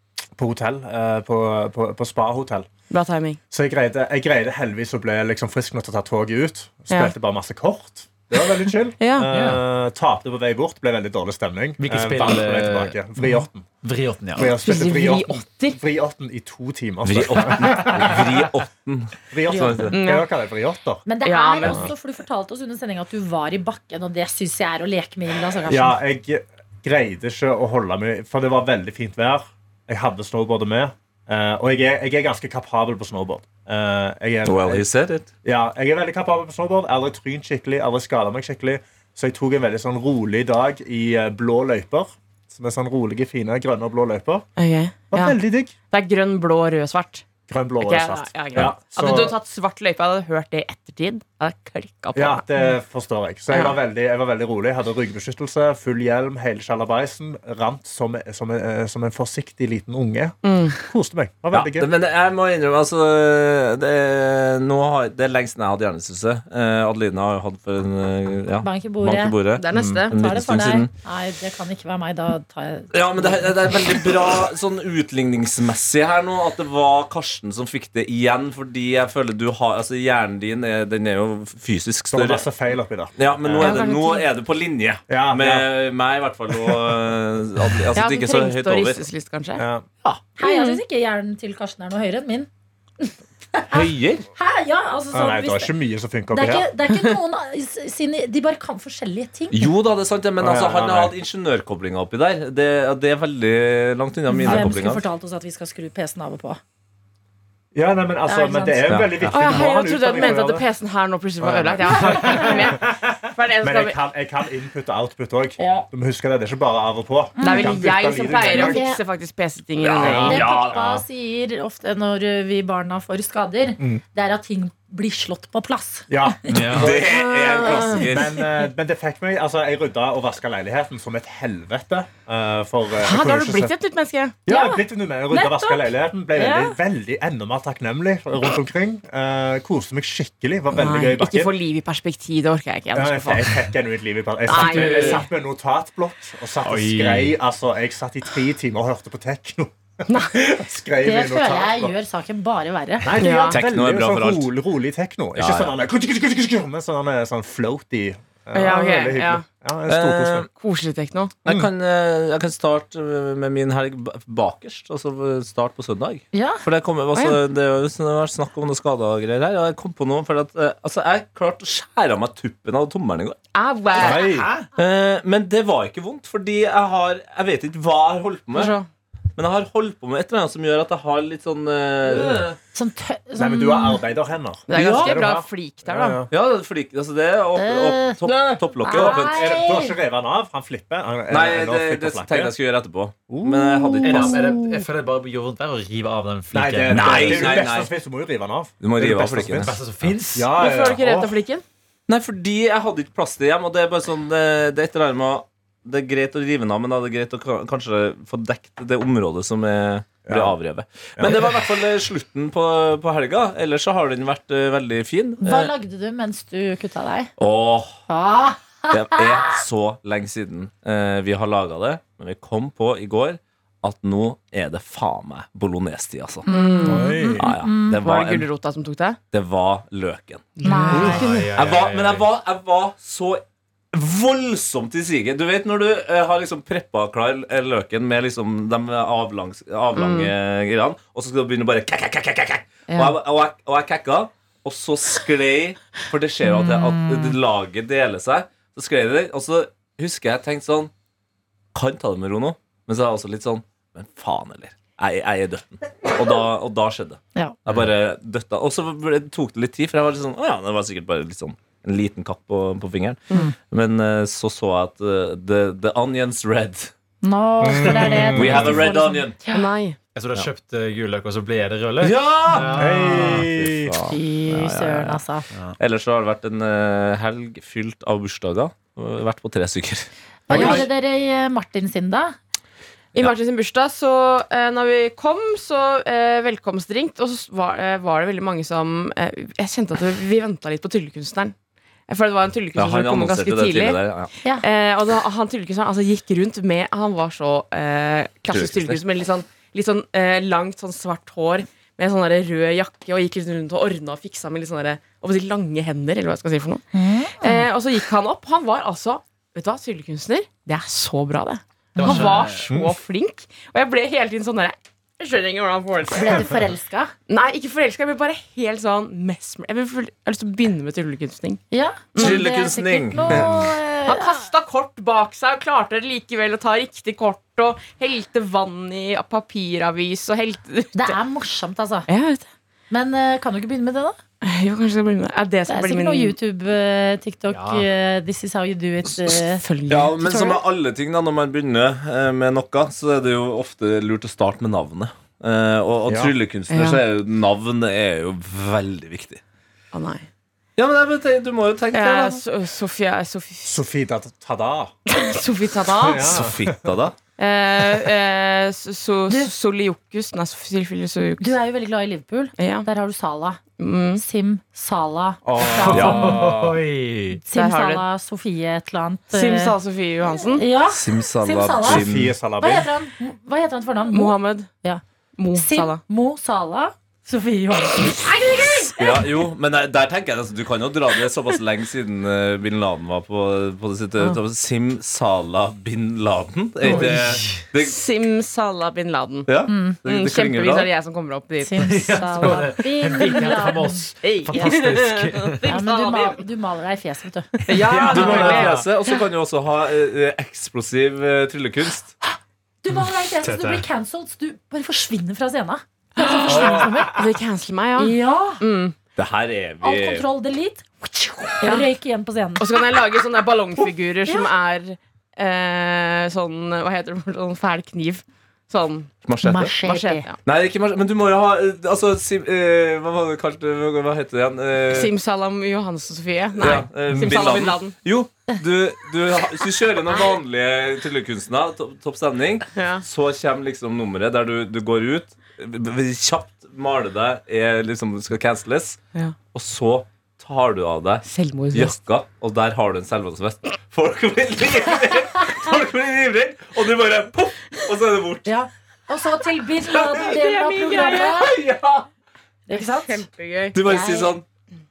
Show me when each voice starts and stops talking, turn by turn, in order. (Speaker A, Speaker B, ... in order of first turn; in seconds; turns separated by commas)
Speaker A: 0.4-2.7, Speaker B: 2.9-3.4, Speaker A: 3.5-13.7, Speaker B: 9.0-9.3, Speaker C: 9.3-9.6, Speaker C: 11.8-14.5, Speaker A: 14.3-18.5, Speaker B: 14.6-15.8, Speaker D: 17.1-19.9, Speaker A: 19.3-21.1, Speaker E: 19.5-19.9, Speaker B: 19.9-20.3, Speaker E: 21.1-26.0, Speaker B: 21.2-21.9, Speaker A: 21.6-21.9, Speaker A: 25.7-34.9, Speaker D: 34.5-35.3, Speaker A: 35.4-44.5, Speaker B: 44.6-45.4, Speaker A: 45.1-45.7, Speaker B: 45.9-47.3, Speaker A: 47.5-49.4, Speaker B: 47.8-52.6, Speaker A: 52.1-61.9, Speaker B: 53.5-53.8, Speaker B: 60.4-60.8, Speaker D: 61.5-70.9, Speaker E: 68.6-69.4, Speaker B: 69.6-70.1, Speaker A: 69.7-70.0, Speaker E: 70.1-73.5, Speaker D: 72.9-82.5, Speaker A: 82.1-83.8, Speaker D: 83.2-89.0, Speaker B: 83.6-84.3, Speaker A: 85.1-85.7, Speaker A: 86.5-87.0, Speaker B: 88.0-89.6, Speaker A: 89.6-89.9, Speaker E: 90.4-92.5, Speaker B: 90.4-90.8, Speaker E: 93.0-95.7, Speaker D: 93.7-94.3, Speaker A: 95.1-96.7, Speaker E: 96.3-99.7, Speaker D: 99.5-105.0, Speaker A: 100.4-101.1, Speaker E: 104.3-106.6, Speaker A: 107.7-110.7, Speaker E: 108.3-109.0, Speaker D: 108.9-109.6, Speaker B: 109.3-114.0, Speaker A: 111.4-118.8, Speaker E: 112.1-112.4, Speaker E: 115.6-115.9, Speaker E: 117.4-119.0, Speaker B: 117.4-120.5, Speaker D: 119.8-121.0, Speaker A: 120.0-120.8, Speaker E: 120.1-126.4, Speaker A: 126.1-133.7, Speaker C: 126.5-126.9, Speaker D: 126.7-128.4, Speaker B: 127.0-128.1, Speaker B: 133.0-134.4, Speaker A: 134.5-141.5, Speaker E: 134.5-136.8, Speaker B: 140.7-143.5, Speaker A: 142.9-151.9, Speaker B: 144.5-145.3, Speaker C: 144.6-145.2, Speaker C: 146.6-147.3, Speaker B: 150.1-150.4, Speaker E: 151.0-153.2, Speaker A: 153.0-160.5, Speaker B: 153.2-153.6, Speaker D: 153.5-154.5, Speaker D: 155.4-155.7, Speaker B: 158.5-159.4, Speaker D: 159.9-160.5, Speaker B: 160.6-161.4, Speaker D: 161.4-173.4, Speaker E: 166.3-166.6, Speaker B: 173.5-174.3, Speaker A: 174.0-174.5, Speaker D: 174.8-178.7, Speaker B: 178.5-178.8, Speaker D: 179.4-182.6, Speaker E: 182.7-184.0, Speaker A: 183.4-186.3, Speaker B: 184.7-186.2, Speaker D: 184.7-185.2, Speaker D: 186.3-189.5, Speaker E: 187.6-189.9, Speaker A: 188.9-192.5, Speaker D: 191.3-194.5, Speaker A: 193.3-194.5, Speaker C: 194.0-197.6, Speaker E: 194.2-194.6, Speaker A: 196.5-199.8, Speaker D: 196.9-197.9, Speaker D: 198.8-199.8, Speaker C: 199.6-200.5, Speaker A: 200.3-201.4, Speaker B: 200.6-201.6, Speaker D: 202.1-215.7, Speaker A: 210.3-210.6, Speaker A: 211.2-211.6, Speaker E: 215.4-217.3, Speaker D: 217.4-218.0, Speaker E: 218.1-219.6, Speaker D: 218.9-226.5, Speaker E: 226.5-228.0, Speaker B: 226.5-227.2, Speaker A: 226.8-227.5, Speaker D: 227.4-228.5, Speaker B: 228.0-229.2, Speaker D: 229.3-230.6, Speaker B: 230.6-231.5, Speaker E: 230.6-231.4, Speaker C: 230.7-232.3, Speaker D: 231.6-250.9, Speaker B: 239.9-240.3, Speaker B: 242.9-243.2, Speaker E: 246.5-247.3, Speaker D: 251.7-266.9, Speaker E: 267.2-269.7, Speaker A: 267.6-268.8, Speaker D: 268.4-269.4, Speaker B: 269.5-270.0, Speaker C: 270.1-273.5, Speaker D: 272.0-275.2, Speaker A: 272.7-274.0, Speaker E: 274.0-275.4, Speaker D: 275.8-280.9, Speaker E: 280.5-282.4, Speaker A: 280.5-280.9, Speaker B: 283.1-291.5, Speaker B: 292.1-294.0, Speaker D: 292.8-294.3, Speaker B: 294.6-306.9, Speaker D: 298.5-299.0, Speaker E: 306.9-307.7, Speaker B: 307.4-316.5, Speaker C: 312.0-312.7, Speaker E: 312.0-312.3, Speaker A: 312.7-312.9, Speaker E: 316.1-317.1, Speaker B: 317.3-321.6, Speaker E: 321.7-324.5, Speaker B: 322.1-322.4, Speaker D: 322.2-323.7, Speaker B: 324.1-331.2, Speaker E: 330.9-332.1, Speaker B: 332.1-332.4, Speaker E: 332.9-334.2, Speaker B: 334.4-336.4, Speaker E: 335.7-339.6, Speaker C: 337.5-337.8, Speaker B: 339.6-340.2, Speaker D: 339.9-349.4, Speaker E: 340.2-340.6, Speaker A: 346.1-346.4, Speaker B: 346.7-347.0, Speaker B: 349.9-350.3, Speaker D: 350.8-352.4, Speaker B: 351.9-353.8, Speaker A: 353.6-354.9, Speaker B: 355.1-356.4, Speaker A: 356.0-357.0, Speaker D: 356.2-357.2, Speaker B: 357.4-361.5, Speaker E: 361.4-363.6, Speaker B: 362.6-362.9, Speaker B: 363.8-364.2, Speaker E: 364.2-366.4, Speaker A: 365.4-366.6, Speaker C: 365.8-367.4, Speaker D: 365.9-366.8, Speaker E: 367.4-369.7, Speaker B: 367.5-368.0, Speaker B: 369.3-370.6, Speaker E: 370.3-375.0, Speaker D: 370.9-372.3, Speaker A: 371.8-372.9, Speaker B: 374.1-374.7, Speaker B: 375.4-376.0, Speaker E: 375.6-378.7, Speaker B: 378.2-379.2, Speaker D: 378.9-388.0, Speaker B: 386.9-387.1, Speaker C: 386.9-387.7, Speaker B: 387.8-393.7, Speaker D: 389.5-390.9, Speaker E: 389.7-390.0, Speaker E: 391.6-394.9, Speaker C: 391.8-395.7, Speaker B: 394.2-396.4, Speaker E: 395.6-397.6, Speaker C: 397.7-398.9, Speaker B: 397.7-399.1, Speaker D: 397.9-402.1, Speaker E: 402.8-407.2, Speaker C: 402.9-403.9, Speaker B: 406.2-408.9, Speaker C: 406.5-407.2, Speaker E: 408.0-408.6, Speaker D: 409.2-410.3, Speaker E: 409.8-412.8, Speaker B: 411.6-411.9, Speaker B: 412.6-419.2, Speaker D: 419.2-419.8, Speaker E: 419.4-420.3, Speaker B: 419.8-420.4, Speaker D: 420.4-425.1, Speaker B: 424.9-428.0, Speaker D: 426.6-439.0, Speaker B: 432.8-433.0, Speaker D: 439.5-448.5, Speaker B: 441.2-442.0, Speaker E: 448.5-451.6, Speaker D: 449.9-450.3, Speaker B: 450.2-451.4, Speaker D: 450.9-452.1, Speaker E: 452.7-453.2, Speaker B: 452.7-453.8, Speaker D: 453.7-454.4, Speaker E: 453.8-454.4